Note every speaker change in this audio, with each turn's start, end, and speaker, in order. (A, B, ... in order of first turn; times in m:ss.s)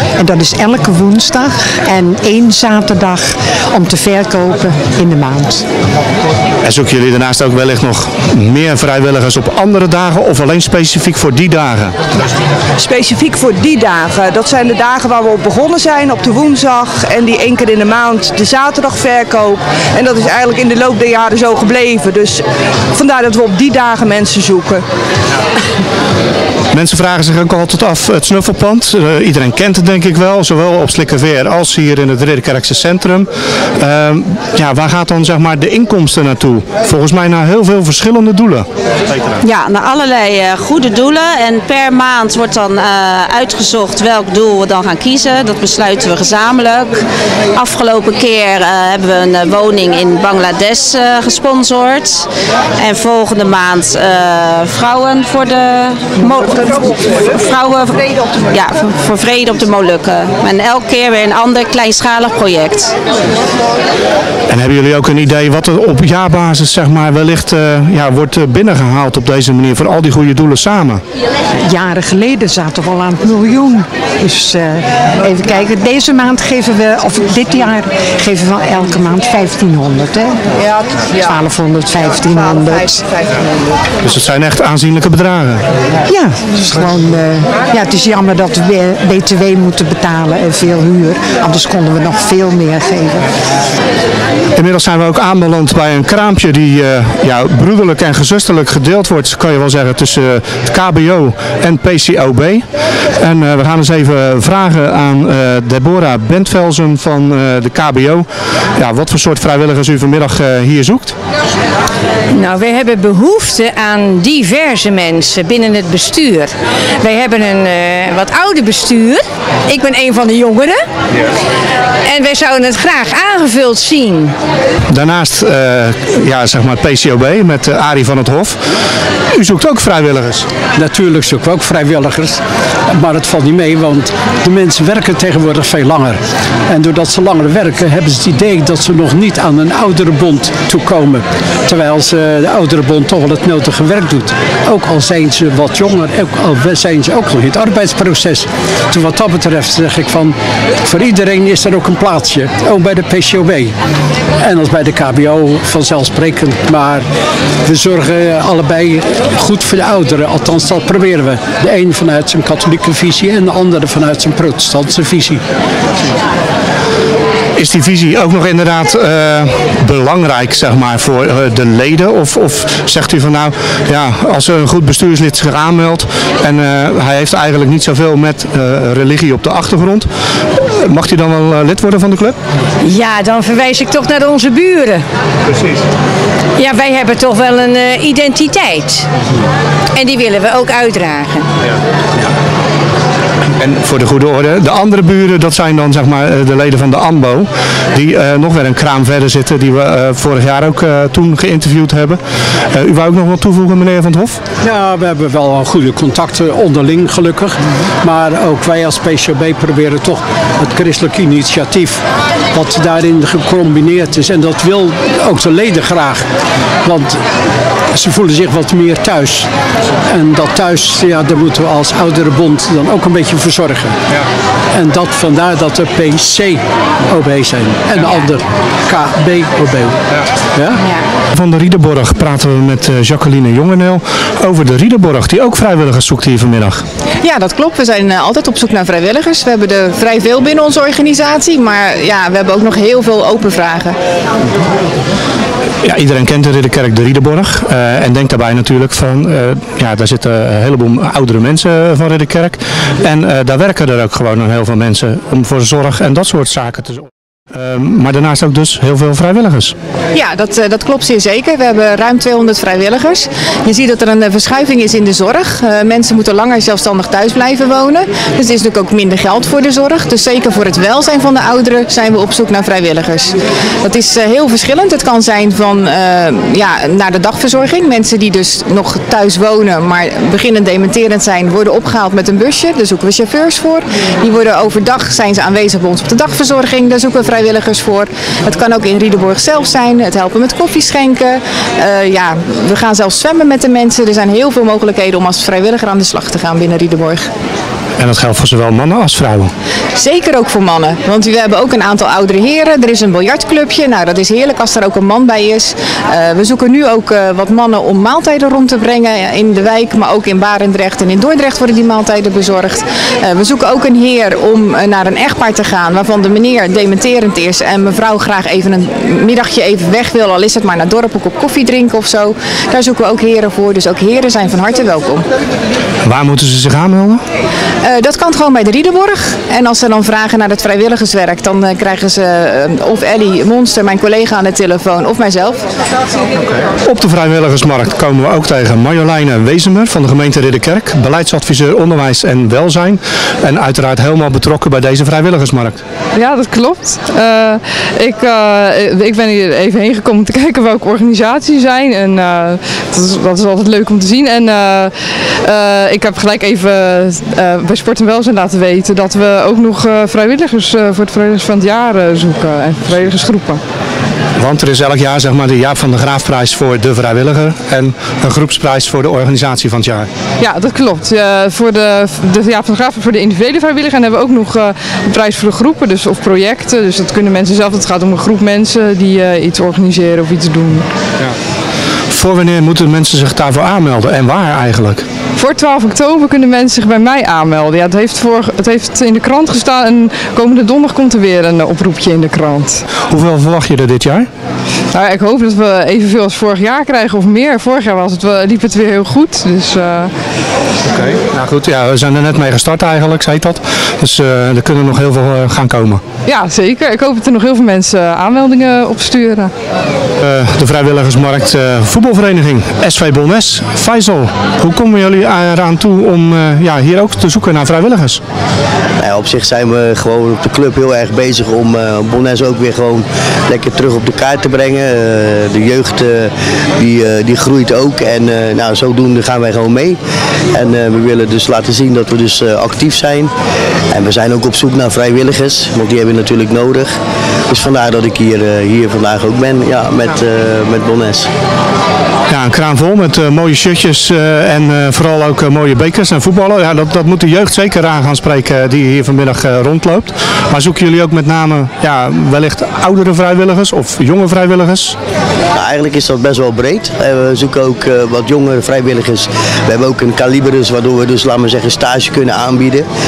0:00.2-0:05.6 A
0:06.6-0:12.0 B
0:12.8-0:22.4 C
0:22.9-0:24.8 C
0:26.7-0:39.4 B
0:39.4-0:47.0 D
0:47.5-0:52.3 D
0:52.8-0:58.0 D
0:58.5-1:02.9 D
1:04.5-1:11.0 B
1:11.6-1:20.4 A
1:21.2-1:23.0 A
1:24.0-1:25.6 B
1:26.1-1:33.3 A
1:34.6-1:42.7 B
1:43.2-1:51.2 B
1:52.3-2:00.8 E
2:02.1-2:04.4 E
2:04.9-2:08.6 B
2:09.3-2:10.5 B
2:10.8-2:33.7 F
2:34.4-2:37.0 F
2:37.6-2:45.4 F
2:47.6-3:02.4 B
3:02.8-3:05.0 E
3:06.6-3:09.1 E
3:10.0-3:11.5 E
3:13.6-3:22.2 B
3:22.7-3:24.4 B
3:24.6-3:36.2 F
3:36.8-3:37.2 F
3:37.9-3:39.5 F
3:40.1-3:44.0 F
3:44.7-3:50.0 F
3:50.6-3:50.8 F
3:51.3-3:56.8 B
3:57.2-4:04.0 G
4:05.8-4:19.8 B
4:20.1-4:57.3 G
4:58.0-4:59.5 B
5:00.0-5:25.3 G
5:26.0-5:27.2 B
5:27.8-5:35.6 G
5:36.8-5:45.8 B
5:46.2-6:03.6 H
6:04.4-6:10.1 B
6:10.4-6:20.9 H
6:22.1-6:25.1 B
6:25.4-6:32.8 H
6:33.1-6:34.3 B
6:34.9-6:40.1 H
6:41.0-6:46.0 B
6:46.3-6:49.5 H
6:50.2-6:58.2 B
6:59.0-7:10.0 I
7:10.5-7:13.3 I
7:13.9-7:17.0 I
7:17.5-7:21.3 I
7:22.3-7:35.0 B
7:35.6-7:42.9 I